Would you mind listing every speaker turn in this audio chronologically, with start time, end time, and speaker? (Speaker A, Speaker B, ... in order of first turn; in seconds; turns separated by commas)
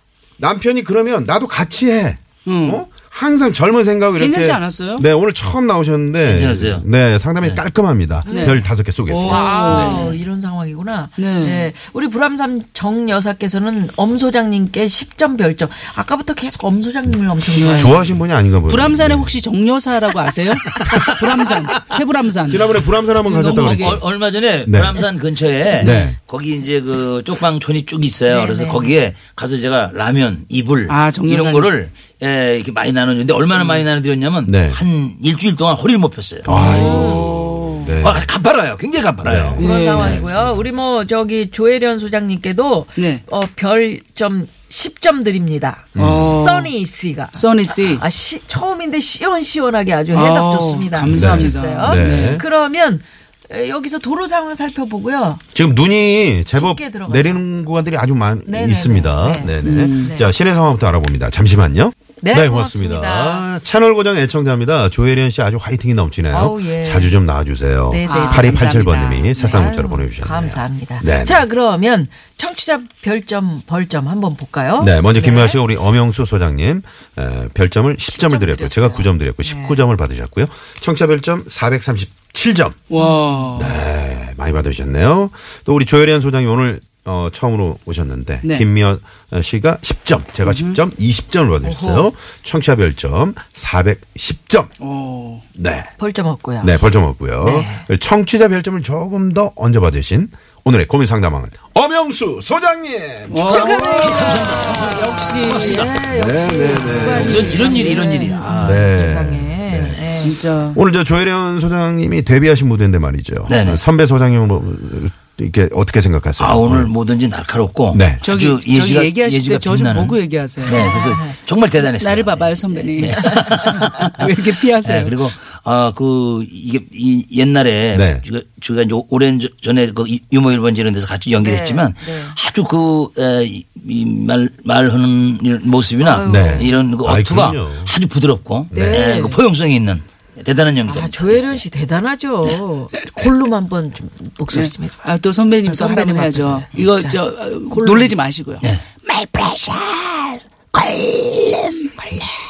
Speaker A: 0.4-10.1, Speaker B: 2.5-2.8, Speaker B: 4.2-5.0, Speaker C: 6.2-6.9, Speaker D: 8.3-18.2, Speaker B: 8.3-10.2, Speaker B: 11.2-11.7, Speaker B: 17.5-18.0, Speaker A: 17.7-19.4, Speaker B: 18.7-24.0, Speaker A: 22.5-24.1, Speaker C: 23.2-37.0, Speaker A: 24.7-25.1, Speaker A: 25.8-26.2, Speaker B: 25.8-26.1, Speaker D: 28.3-28.9, Speaker B: 30.9-31.7, Speaker B: 33.5-33.8, Speaker A: 34.5-34.8, Speaker A: 36.4-38.3, Speaker D: 36.5-37.3, Speaker B: 36.5-37.9, Speaker C: 38.0-39.6, Speaker A: 39.2-40.6, Speaker D: 39.6-55.4, Speaker B: 39.6-40.2, Speaker B: 43.0-43.2, Speaker A: 46.0-46.3, Speaker B: 46.0-46.7, Speaker B: 47.3-48.0, Speaker B: 50.1-52.4, Speaker A: 51.0-52.4, Speaker A: 55.5-71.4, Speaker D: 56.5-57.4, Speaker D: 58.5-60.3, Speaker B: 59.6-60.1, Speaker D: 62.2-63.5, Speaker D: 66.3-67.2, Speaker D: 67.9-75.6, Speaker B: 68.0-68.8, Speaker A: 74.8-82.8, Speaker D: 78.1-79.8, Speaker B: 82.9-83.8, Speaker D: 83.0-83.7, Speaker A: 83.6-94.7, Speaker B: 90.5-90.8, Speaker D: 91.6-92.1, Speaker B: 94.8-95.5, Speaker A: 95.6-95.9, Speaker D: 96.0-96.8, Speaker A: 96.6-104.1, Speaker D: 97.4-97.8, Speaker B: 103.3-105.9, Speaker D: 103.4-110.4, Speaker C: 103.7-106.0, Speaker A: 106.1-107.7, Speaker C: 107.0-108.8, Speaker A: 108.6-110.2, Speaker B: 110.1-110.8, Speaker A: 110.7-116.9, Speaker C: 113.5-113.8, Speaker C: 116.4-141.6, Speaker A: 117.9-118.2, Speaker B: 118.2-120.9, Speaker D: 120.7-121.3, Speaker B: 122.0-125.2, Speaker A: 127.9-128.2, Speaker D: 131.4-132.4, Speaker D: 136.0-136.8, Speaker A: 136.2-137.9, Speaker A: 138.7-139.1, Speaker D: 138.7-139.4, Speaker D: 140.9-145.0, Speaker B: 144.5-152.2, Speaker D: 145.7-148.1